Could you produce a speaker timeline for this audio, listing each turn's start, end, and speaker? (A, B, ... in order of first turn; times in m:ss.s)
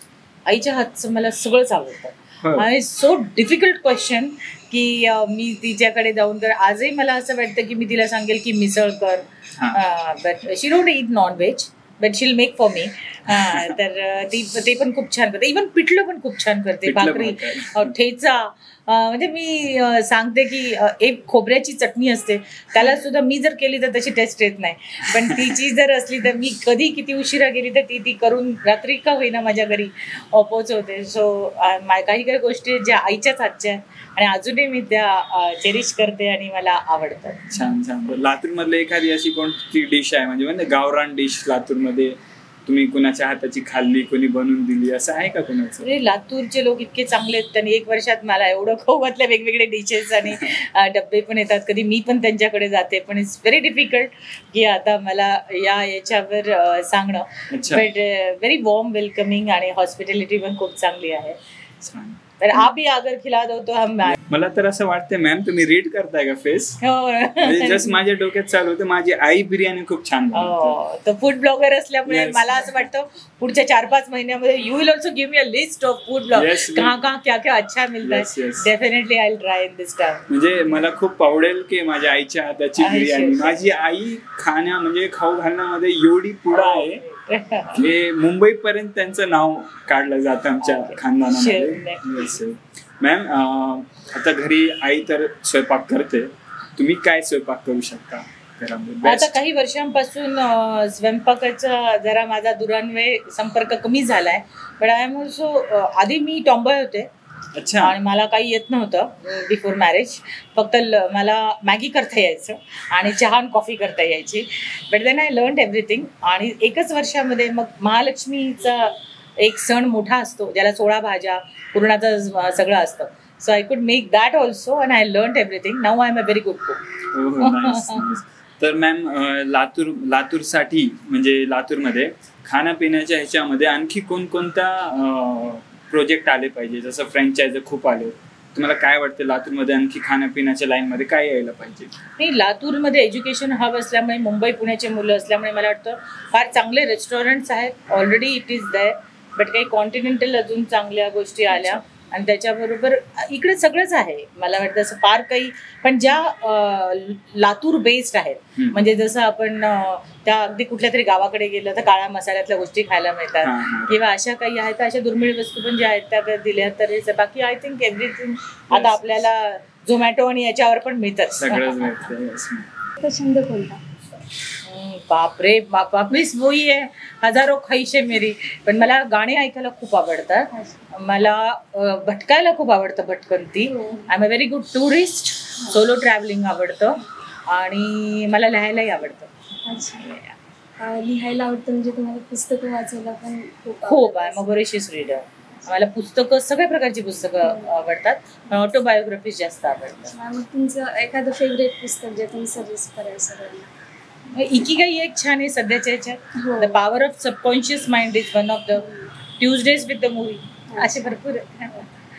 0:00.4-0:37.5 A
0:13.3-0:13.7 B
0:16.8-0:17.9 B
0:37.5-0:45.9 B
0:45.8-1:01.4 A
0:57.5-0:57.8 B
1:01.8-1:02.2 B
1:02.4-1:04.2 A
1:04.0-1:06.8 B
1:06.8-1:08.0 A
1:07.4-1:10.8 B
1:10.3-1:20.2 A
1:12.1-1:12.8 B
1:16.3-1:17.0 B
1:18.0-1:18.7 B
1:20.3-1:27.0 B
1:22.8-1:23.6 A
1:26.5-1:27.9 A
1:27.7-1:39.3 B
1:30.6-1:32.3 A
1:39.0-1:47.1 A
1:47.5-1:48.0 B
1:47.8-2:06.8 A
2:07.1-2:21.9 B
2:07.4-2:08.0 A
2:22.2-2:52.1 A
2:38.6-2:38.8 B
2:43.4-2:44.0 B
2:48.7-2:49.0 B
2:51.4-2:52.7 B
2:53.0-2:53.9 C
2:54.6-3:09.3 A
3:00.5-3:00.8 C
3:03.6-3:04.1 C
3:09.6-3:10.1 C
3:10.0-3:10.3 A
3:10.8-3:14.5 C
3:13.8-3:20.1 A
3:17.4-3:17.8 C
3:20.1-3:23.7 C
3:24.3-3:31.9 A
3:26.4-3:26.8 C
3:28.8-3:29.1 C
3:30.7-3:31.1 C